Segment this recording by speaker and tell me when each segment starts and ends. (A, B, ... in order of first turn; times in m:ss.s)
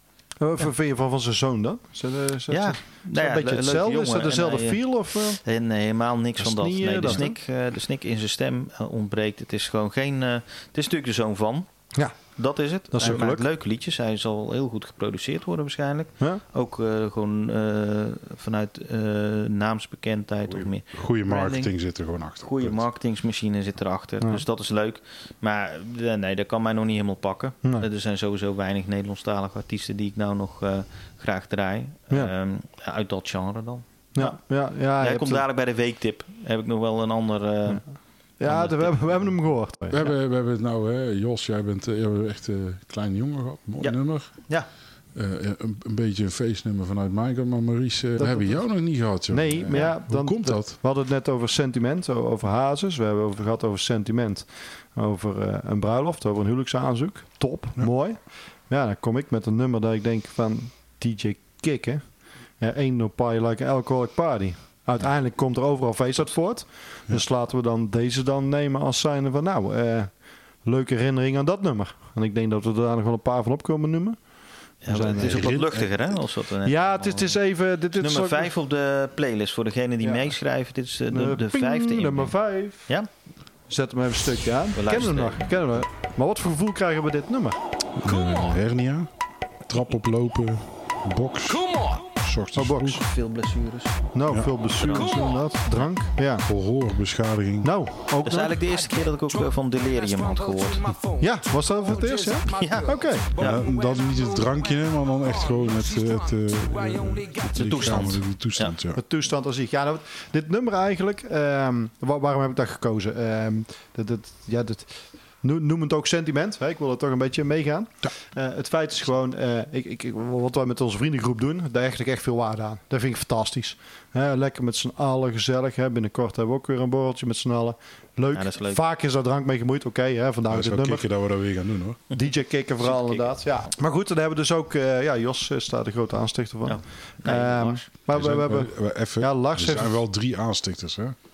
0:00.4-0:05.4 A
0:02.5-0:11.7 B
0:06.4-0:07.4 A
0:11.9-0:12.4 A
0:12.2-0:21.7 B
0:12.9-0:13.5 A
0:20.5-0:22.9 C
0:22.4-0:34.4 B
0:34.1-0:35.4 A
0:35.0-0:37.9 B
0:38.4-0:40.0 A
0:38.4-0:39.3 B
0:39.9-0:44.5 C
0:43.8-0:44.7 B
0:45.1-0:50.8 C
0:48.2-1:02.0 A
0:49.7-0:50.0 B
1:02.6-1:10.1 A
1:10.6-1:14.2 A
1:14.8-1:17.4 B
1:14.8-1:15.6 A
1:15.2-1:15.9 C
1:16.6-1:18.5 A
1:17.9-1:22.3 B
1:20.0-1:20.4 A
1:21.1-1:22.9 A
1:23.7-1:27.6 A
1:24.7-1:25.5 B
1:28.0-1:29.1 C
1:29.6-1:33.0 C
1:32.5-1:33.0 A
1:33.0-1:34.0 B
1:34.1-1:36.5 A
1:34.3-1:34.5 C
1:34.7-1:35.3 B
1:36.4-1:37.7 C
1:37.6-1:38.6 A
1:38.2-1:41.0 B
1:41.2-1:43.4 A
1:42.5-1:43.6 B
1:43.4-1:49.0 C
1:47.5-1:48.8 B
1:48.9-2:11.1 A
2:08.3-2:08.8 B
2:10.5-2:12.0 C
2:12.1-2:20.0 A
2:12.8-2:13.7 B
2:16.6-2:17.9 B
2:18.1-2:21.2 C